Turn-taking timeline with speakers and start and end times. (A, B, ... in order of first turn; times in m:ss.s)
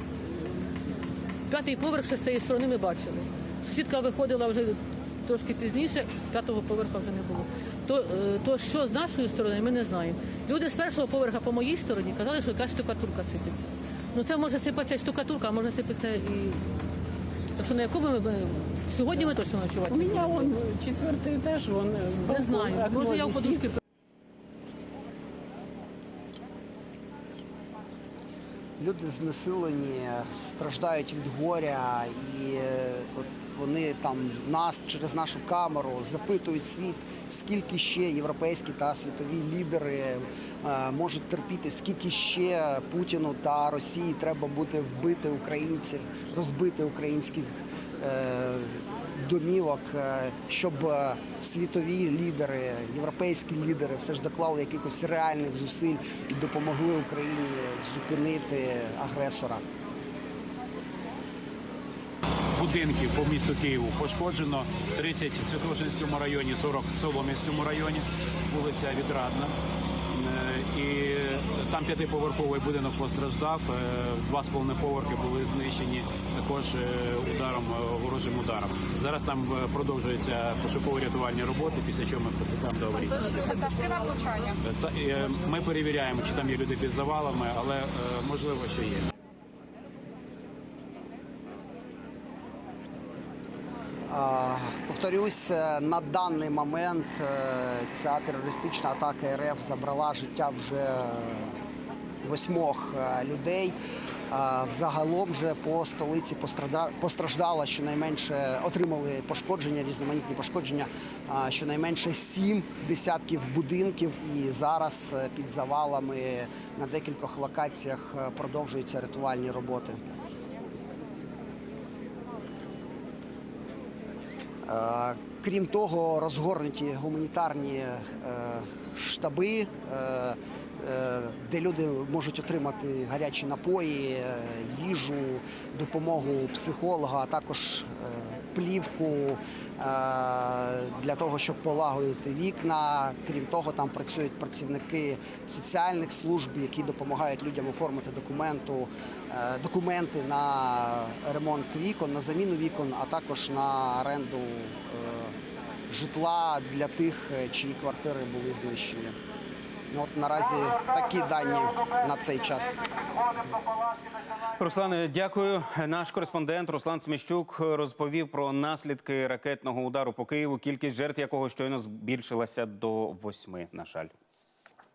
0:01.5-0:16.6 A
0:17.6-0:20.6 A
0:19.9-0:23.8 B
0:22.3-0:23.8 A
0:28.8-0:59.6 C
1:02.6-1:09.5 D
1:10.1-1:23.6 D
1:24.7-1:29.1 D
1:34.1-1:41.6 C
1:42.2-1:43.8 C
1:44.3-2:00.0 C
2:04.6-2:35.4 C
2:35.9-2:39.2 C
2:39.9-2:42.8 C
2:44.6-2:54.1 E